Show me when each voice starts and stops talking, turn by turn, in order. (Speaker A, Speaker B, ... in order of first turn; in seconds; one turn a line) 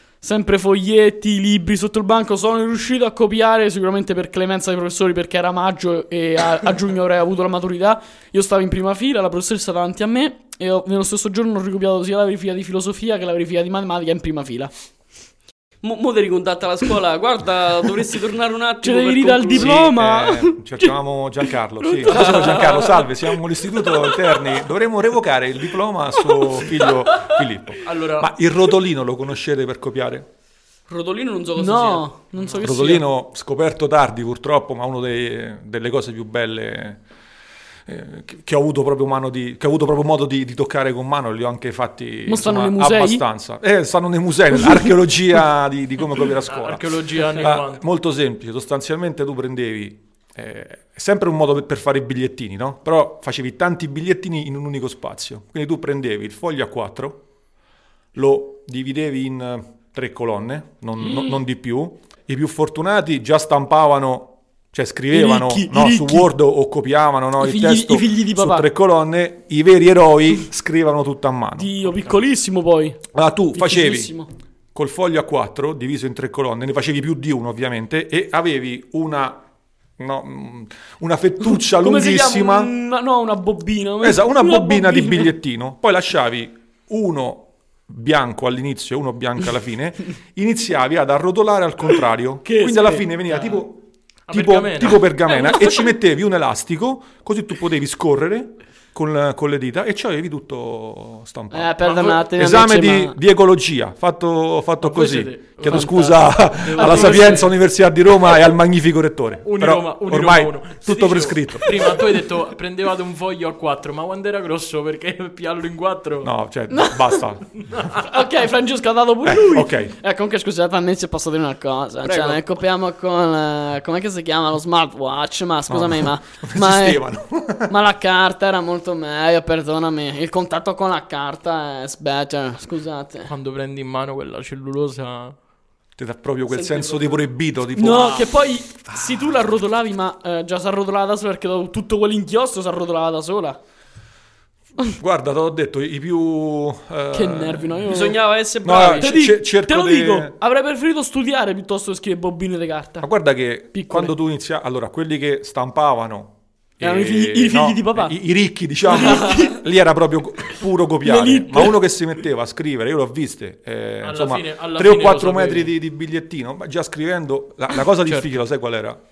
Speaker A: 0.2-14.7
Speaker B: 15.8-19.8
Speaker A: 18.8-21.0
Speaker C: 19.6-30.3
Speaker A: 21.8-23.0
Speaker D: 27.8-28.3
Speaker B: 30.9-32.1
Speaker A: 31.6-33.1
Speaker C: 32.6-37.0
Speaker C: 37.9-57.2
Speaker A: 42.2-43.2
Speaker D: 46.4-47.8
Speaker C: 58.1-72.1
Speaker A: 65.1-66.3
Speaker A: 67.4-68.7
Speaker A: 71.6-73.0
Speaker C: 73.1-74.1
Speaker A: 73.5-74.3
Speaker C: 74.7-79.4
Speaker C: 80.0-82.7
Speaker A: 81.5-85.3
Speaker C: 84.0-112.0
Speaker A: 92.4-93.6
Speaker D: 94.3-95.2
Speaker A: 101.5-103.2
Speaker D: 101.8-102.2
Speaker D: 104.8-107.5
Speaker A: 105.7-106.1
Speaker A: 106.7-107.5
Speaker D: 109.4-116.3
Speaker C: 116.2-117.5
Speaker A: 116.7-117.2
Speaker D: 117.7-118.0
Speaker A: 117.9-127.1
Speaker C: 119.2-119.9
Speaker B: 122.0-122.4
Speaker C: 125.7-127.7
Speaker A: 127.7-133.3
Speaker D: 133.3-135.3
Speaker C: 136.0-139.3
Speaker B: 136.5-137.3
Speaker A: 137.7-143.6
Speaker C: 144.9-147.9
Speaker A: 147.1-148.2
Speaker B: 147.9-149.2
Speaker C: 148.6-150.3
Speaker A: 148.8-153.1
Speaker C: 153.0-169.0
Speaker A: 153.7-154.1
Speaker A: 156.8-158.2
Speaker A: 158.9-159.6
Speaker A: 161.0-161.8
Speaker D: 164.0-165.7
Speaker D: 168.1-168.3